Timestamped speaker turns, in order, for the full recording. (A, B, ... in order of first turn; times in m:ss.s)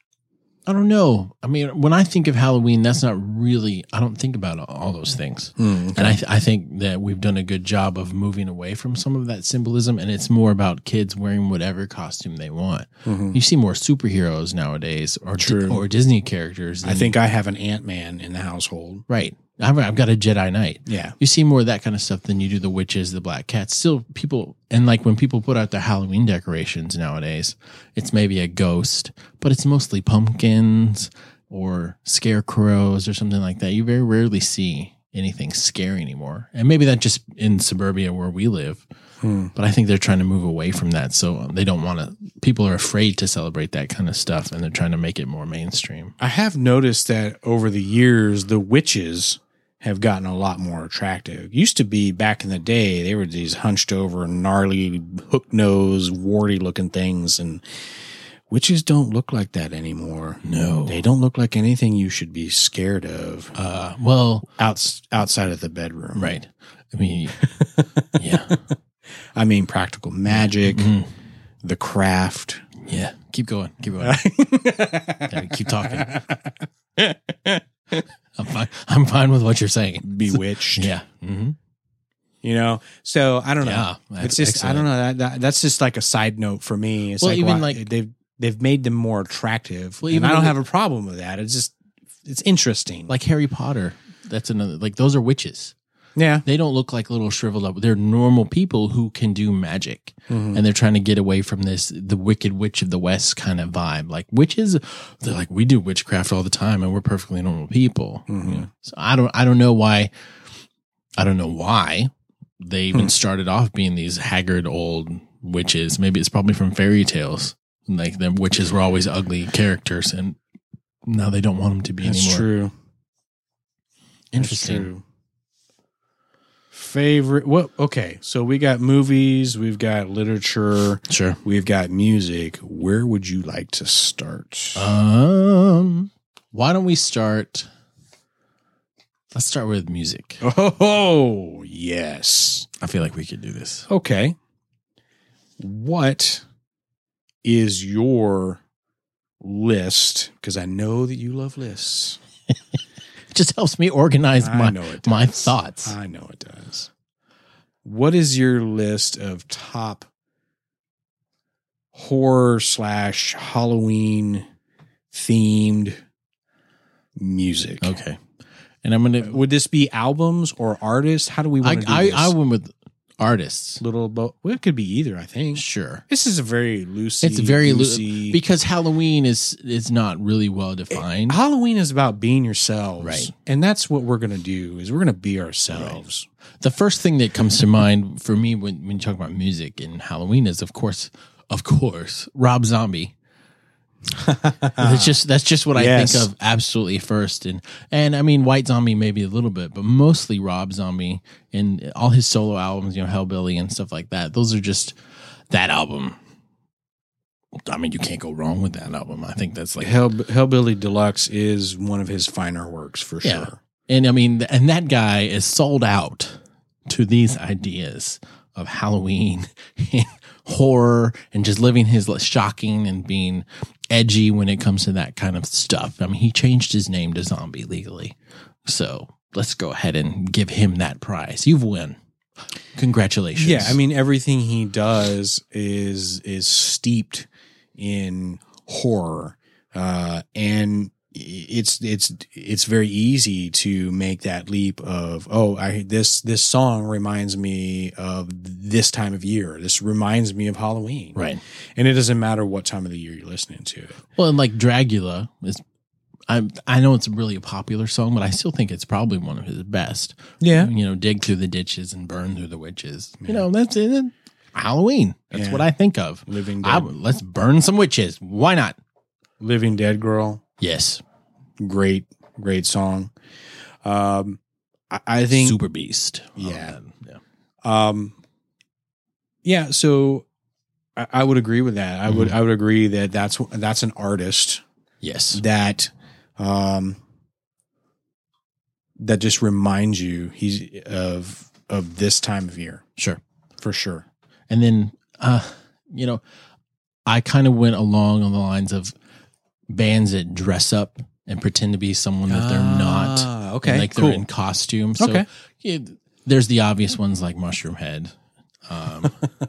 0:00.7-0:17.2 A
0:05.6-0:06.2 B
0:13.0-0:13.4 B
0:15.4-0:15.8 B
0:16.8-0:19.0 B
0:19.1-0:38.8 A
0:20.9-0:21.2 B
0:39.2-0:39.5 B
0:39.6-0:46.2 A
0:46.2-0:57.6 B
0:58.5-1:03.6 B
1:00.4-1:01.0 A
1:03.6-1:04.5 A
1:04.6-1:06.3 B
1:06.2-1:07.5 A
1:07.4-1:08.2 B
1:08.2-1:08.6 A
1:09.4-1:10.9 B
1:10.3-1:11.1 A
1:11.6-1:12.6 B
1:12.8-1:14.2 A
1:14.0-1:17.9 B
1:15.3-1:16.2 A
1:18.4-1:21.6 A
1:20.0-1:20.9 B
1:22.4-1:33.1 B
1:23.6-1:24.9 A
1:27.2-1:27.9 A
1:30.0-1:30.6 A
1:33.1-1:35.7 A
1:36.2-1:36.4 B
1:36.4-1:50.1 A
1:40.3-1:40.6 B
1:48.3-1:48.7 B
1:51.2-2:00.4 A
2:01.1-2:02.5 A
2:02.0-2:02.7 B
2:04.3-2:04.9 A
2:04.4-2:05.0 B
2:06.7-2:14.9 B
2:11.1-2:11.4 A
2:14.8-2:17.7 A
2:19.3-2:20.4 A
2:20.4-2:22.7 B
2:22.8-2:23.9 A
2:23.9-2:24.4 B
2:25.6-2:26.4 B
2:27.4-2:28.6 B
2:29.4-2:32.2 B
2:33.3-2:36.0 A
2:34.4-2:36.9 B
2:37.8-2:40.1 B
2:41.9-2:44.4 B
2:45.1-2:46.0 B
2:47.2-2:47.9 B
2:47.8-2:48.2 A
2:48.8-2:49.4 A
2:49.2-2:52.3 B
2:51.6-2:53.8 A
2:53.8-2:58.4 B
2:55.5-2:56.0 A
2:57.2-3:01.4 A
3:01.0-3:06.3 B
3:03.0-3:03.3 A
3:05.7-3:06.0 A
3:06.6-3:13.1 A
3:14.1-3:15.2 B
3:14.8-3:25.0 A
3:15.8-3:16.3 B
3:25.5-3:26.2 A
3:27.7-3:30.0 A
3:29.8-3:33.6 B
3:33.2-3:52.0 A
3:52.8-3:53.8 A
3:53.4-4:11.2 B
4:11.2-4:11.4 A
4:11.8-4:14.0 B
4:14.2-4:15.6 A
4:16.3-4:28.8 A
4:20.4-4:20.7 B
4:25.3-4:25.7 B
4:26.3-4:26.9 B
4:29.4-4:30.4 B
4:30.6-4:31.0 A
4:31.6-4:33.1 B
4:33.8-4:35.6 B
4:35.3-4:37.2 A
4:36.4-4:36.8 B
4:37.6-4:38.2 B
4:39.4-4:40.3 B
4:41.0-4:44.6 B
4:42.1-4:42.4 A
4:45.0-4:45.4 A
4:45.3-4:47.0 B
4:49.0-4:52.8 B
4:53.6-4:54.0 B
4:54.5-4:56.2 A
4:57.1-4:58.9 A
4:59.7-5:08.2 A
5:02.3-5:04.3 B
5:05.0-5:05.3 B
5:08.7-5:09.2 A